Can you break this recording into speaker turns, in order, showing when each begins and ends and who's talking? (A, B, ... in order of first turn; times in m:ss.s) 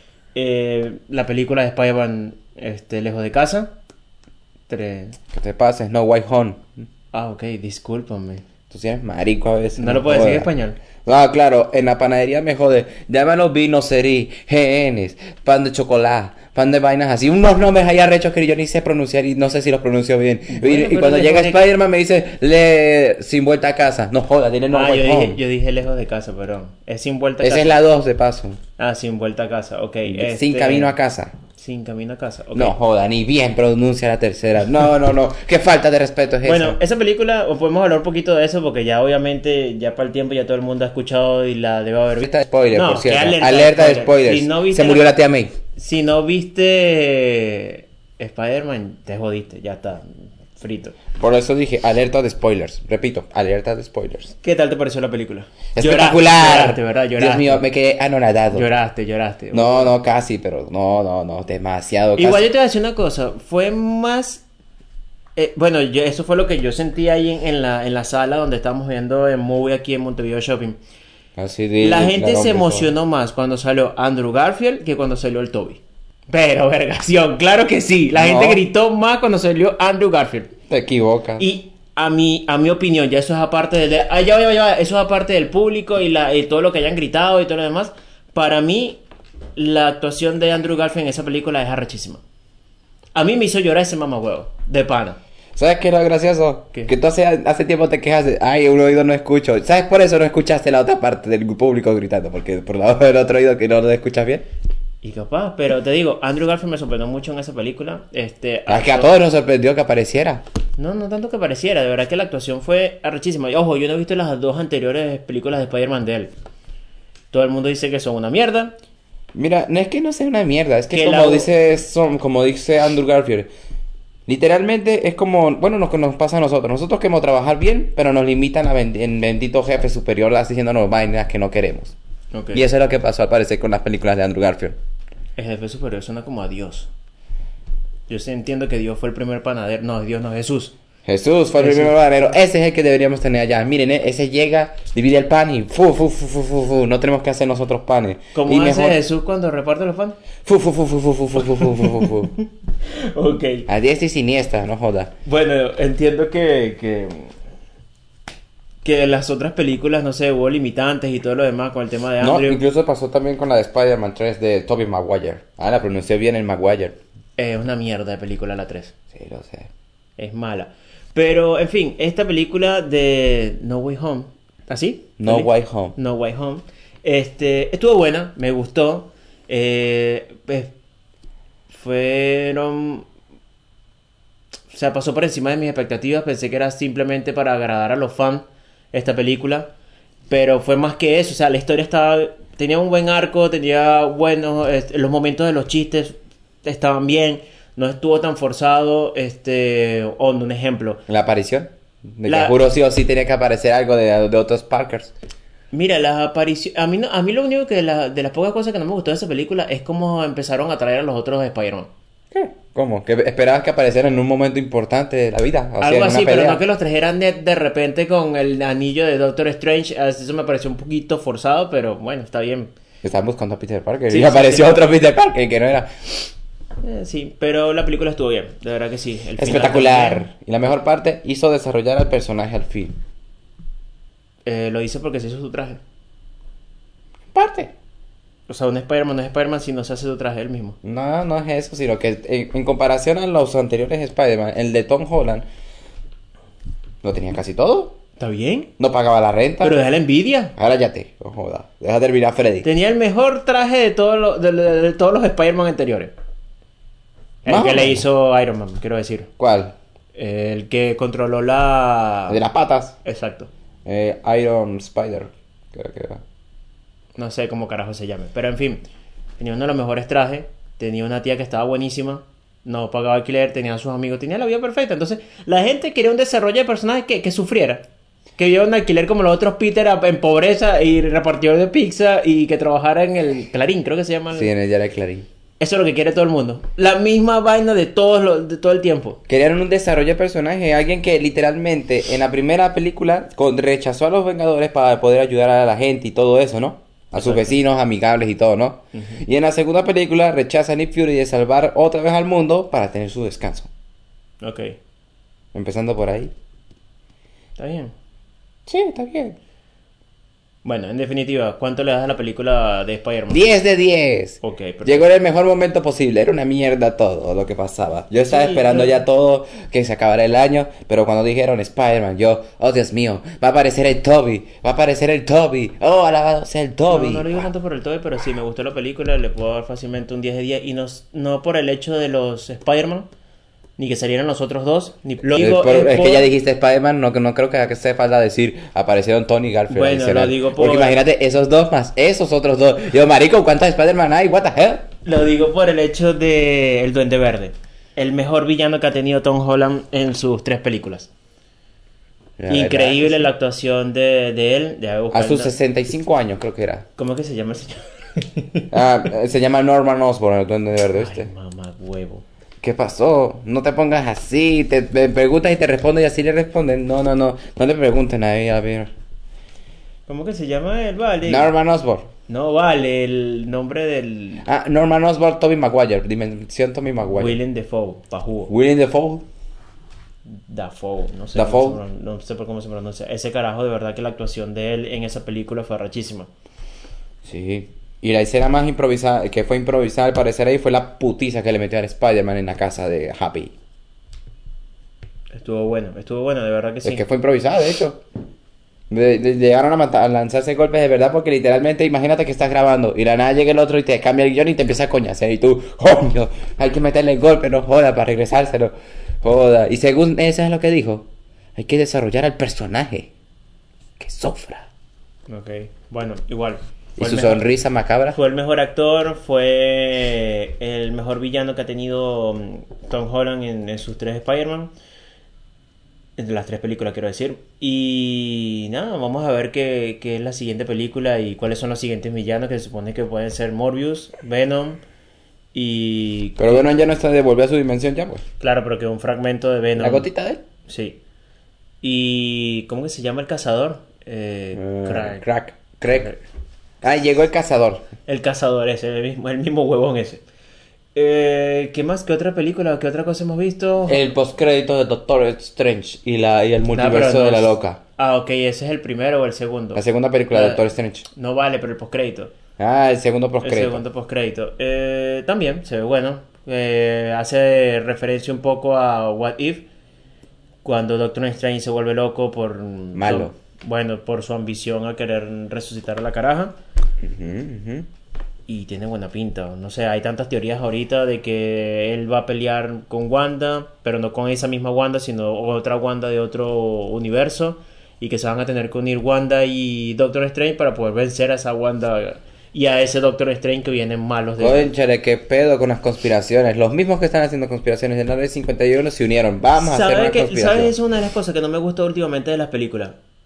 0:00.3-0:03.7 A
0:04.7-0:05.2 A
0:05.3-0:06.7 B
0:07.1-0:08.4 A
0:08.7-0:10.5 B
0:09.8-0:10.8 A
0:11.0-0:25.4 B
0:20.5-0:21.6 A
0:24.7-0:27.8 A
0:27.4-0:28.6 B
0:28.8-0:30.9 A
0:30.0-0:31.3 B
0:31.6-0:32.8 A
0:32.5-0:36.8 B
0:36.4-0:45.2 A
0:42.2-0:45.5 B
0:45.7-0:51.0 A
0:51.1-0:54.3 B
0:54.4-0:57.6 A
0:55.7-0:58.6 B
0:58.5-0:59.9 A
0:59.5-1:02.5 B
1:02.2-1:04.4 A
1:05.4-1:10.8 A
1:11.4-1:12.9 B
1:11.8-1:20.5 A
1:18.1-1:18.6 B
1:20.7-1:21.5 B
1:21.4-1:29.0 A
1:29.6-1:32.2 A
1:33.1-1:35.2 A
1:35.6-1:44.5 B
1:45.0-1:49.1 A
1:48.7-1:50.4 B
1:50.8-1:56.3 A
1:57.3-1:58.7 A
1:59.3-2:03.5 B
2:00.9-2:01.5 A
2:04.3-2:11.9 B
2:12.3-2:12.6 A
2:12.5-2:14.8 B
2:15.4-2:16.9 A
2:18.1-2:20.7 A
2:21.0-2:29.0 B
2:21.6-2:21.9 A
2:28.3-2:30.2 A
2:30.4-2:32.3 B
2:31.5-2:33.7 A
2:33.7-2:35.1 B
2:35.2-2:37.3 A
2:38.8-2:42.6 A
2:42.2-2:47.0 B
2:47.4-2:48.9 A
2:49.1-2:49.7 B
2:50.2-3:00.7 A
2:55.2-2:56.0 B
3:01.7-3:03.1 A
3:04.7-3:09.7 A
3:10.3-3:21.0 A
3:21.1-3:25.1 B
3:22.2-3:22.6 A
3:25.7-3:31.9 A
3:32.3-3:36.6 B
3:35.8-3:42.7 A
3:43.0-3:46.3 B
3:44.1-3:44.8 A
3:46.8-3:50.2 A
3:49.4-3:52.9 B
3:54.4-3:55.8 A
3:57.3-3:57.7 B
3:58.5-4:00.8 A
4:00.8-4:05.4 B
4:07.0-4:08.0 B
4:08.2-4:08.7 A
4:08.8-4:09.8 B
4:09.6-4:10.5 A
4:10.6-4:12.6 B
4:12.6-4:16.1 A
4:17.4-4:19.3 A
4:17.4-4:18.0 B
4:19.4-4:19.8 B
4:20.2-4:22.4 A
4:22.3-4:23.0 B
4:23.0-4:23.5 A
4:23.8-4:26.2 B
4:27.2-4:28.8 A
4:29.4-4:37.8 A
4:38.4-4:44.5 A
4:44.3-4:45.3 B
4:45.6-4:49.2 A
4:49.3-5:03.7 B
4:57.2-4:57.5 A
4:58.9-4:59.2 A
5:04.4-5:04.8 A
5:05.5-5:06.3 B
5:07.6-5:07.9 A
5:08.7-5:09.4 B
5:10.6-5:13.5 A
5:13.3-5:27.4 B
5:14.4-5:15.1 A
5:18.2-5:19.0 A
5:26.9-5:33.1 A
5:33.8-5:36.3 A
5:35.3-5:44.9 B
5:39.7-5:41.0 A
5:45.0-5:51.1 A
5:52.4-5:53.3 B
5:52.5-5:55.5 A
5:55.1-5:56.9 B
5:57.0-5:58.7 A
5:58.7-6:01.3 B
6:01.0-6:02.2 A
6:02.6-6:08.9 B
6:10.1-6:11.5 A
6:11.2-6:12.1 B
6:12.3-6:14.4 A
6:14.4-6:17.4 B
6:17.1-6:18.5 A
6:18.5-6:19.2 B
6:20.3-6:26.3 A
6:21.3-6:21.8 B
6:27.2-6:33.5 B
6:35.3-6:37.0 A
6:36.8-6:38.0 B
6:38.9-6:53.1 B
6:54.0-6:54.7 B
6:55.3-6:57.5 A
6:57.0-6:58.2 B
6:58.1-7:04.7 A
7:06.2-7:14.8 A
7:15.5-7:16.7 A
7:16.4-7:18.2 B
7:18.4-7:20.1 A
7:19.8-7:20.4 B
7:20.6-7:21.0 A
7:21.8-7:25.2 A
7:24.5-7:26.1 B
7:26.8-7:27.9 B
7:28.1-7:30.2 A
7:30.9-7:34.0 A
7:33.9-7:37.8 B
7:36.7-7:42.3 A
7:39.7-7:41.0 B
7:42.6-7:43.8 B
7:43.4-7:49.7 A
7:50.6-7:56.5 A
7:52.9-7:53.3 B
7:57.0-7:57.9 B
7:58.5-8:14.7 A
8:14.4-8:20.7 B
8:19.6-8:23.0 A